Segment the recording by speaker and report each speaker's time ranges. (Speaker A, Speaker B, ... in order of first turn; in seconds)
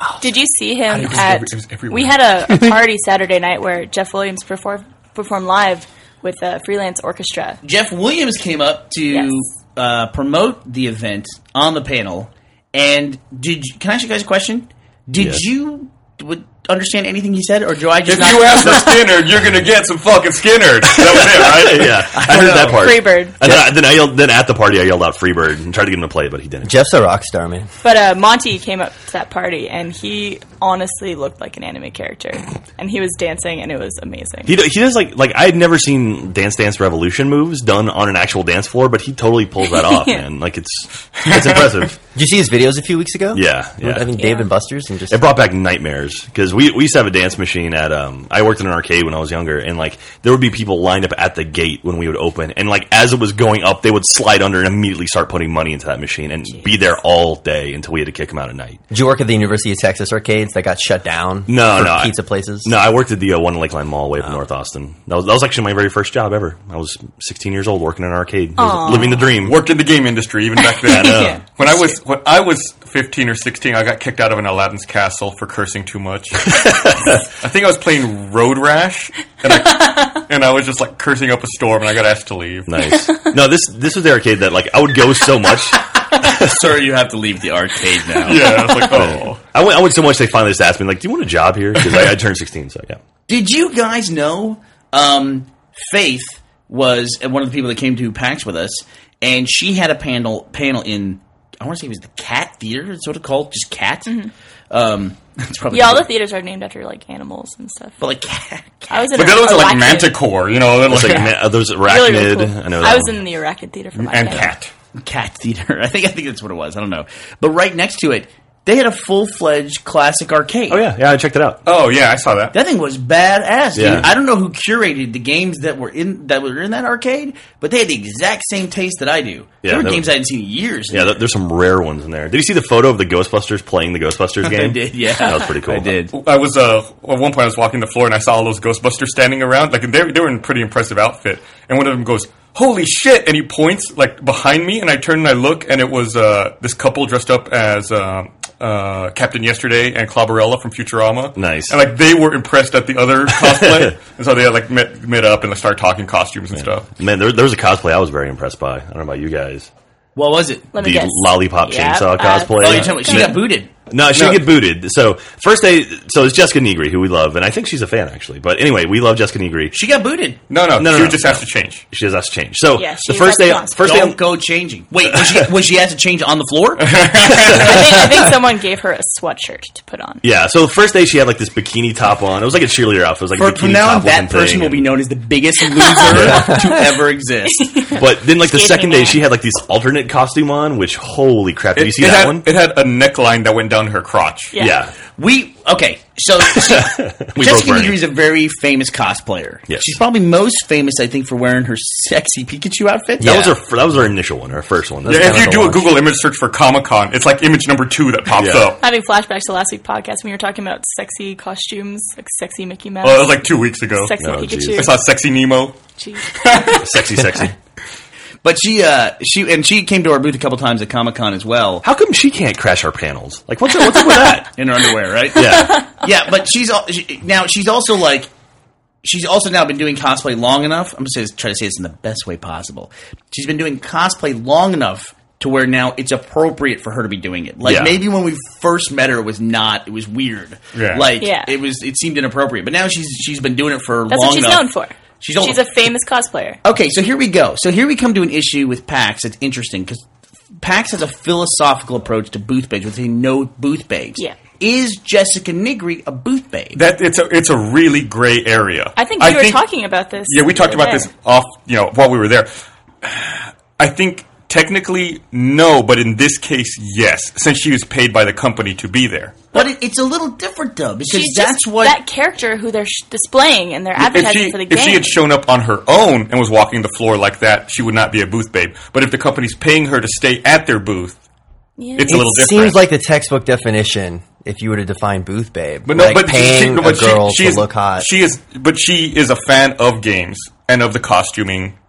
Speaker A: 0.2-7.6, 9.1-9.4, 22.6-23.4, 27.8-34.5, 39.7-40.2, 44.2-44.5, 68.6-69.2, 70.8-72.0, 79.5-80.2, 82.9-83.3, 88.4-88.9, 104.1-104.3, 105.7-108.0, 108.9-110.2, 111.0-111.3, 111.8-114.5, 160.7-163.4, 172.8-174.0, 177.5-180.2, 187.6-189.2, 194.5-194.8, 208.8-215.0, 216.0-216.3, 241.2-241.5, 244.1-246.6, 259.0-261.1, 271.1-275.1, 281.8-282.3
Speaker B: 0.9-2.3, 18.1-22.1, 41.3-41.8, 68.9-82.9, 88.2-89.4, 109.1-111.4, 114.0-114.7, 121.7-122.5, 136.1-156.9, 164.1-164.5, 170.5-171.8, 176.8-177.8, 191.8-194.5, 205.1-208.8, 213.0-214.1, 214.7-215.8, 216.4-216.8, 240.8-241.1, 256.8-259.6, 260.3-262.5, 263.0-269.5, 274.0-281.2, 282.0-282.8, 285.9-291.8
Speaker C: 7.6-19.1, 22.1-22.9, 86.2-88.7, 93.3-104.1, 104.7-106.1, 108.0-109.2, 115.0-120.8, 122.5-131.2, 134.4-136.2, 160.2-160.7, 162.6-163.7, 169.7-170.4, 173.8-178.3, 183.4-187.8, 195.2-203.5, 218.4-221.8, 224.6-228.3, 229.0-244.7, 245.2-245.6, 246.6-250.0, 250.6-256.8, 269.5-272.0
Speaker D: 15.2-15.4, 20.9-26.7, 34.5-42.0, 43.3-44.1, 45.1-58.8, 61.5-69.6, 70.8-71.4, 76.6-77.0, 82.7-86.5, 88.9-93.0, 110.9-113.2, 120.7-121.6, 123.8-124.1, 129.6-130.1, 130.9-136.0, 151.4-151.8, 153.4-153.9, 156.6-159.7, 160.8-169.8, 170.8-174.2, 175.1-175.4, 180.2-184.9, 186.0-186.7, 187.9-192.4, 194.6-194.9, 196.6-198.0, 199.7-200.0, 203.2-205.7, 208.4-208.7, 214.2-214.9, 216.8-217.6, 221.8-224.5, 225.3-225.9, 237.6-238.0
Speaker E: 26.6-27.7, 42.1-45.2, 58.9-62.8, 203.2-203.5, 205.1-205.8, 282.0-288.1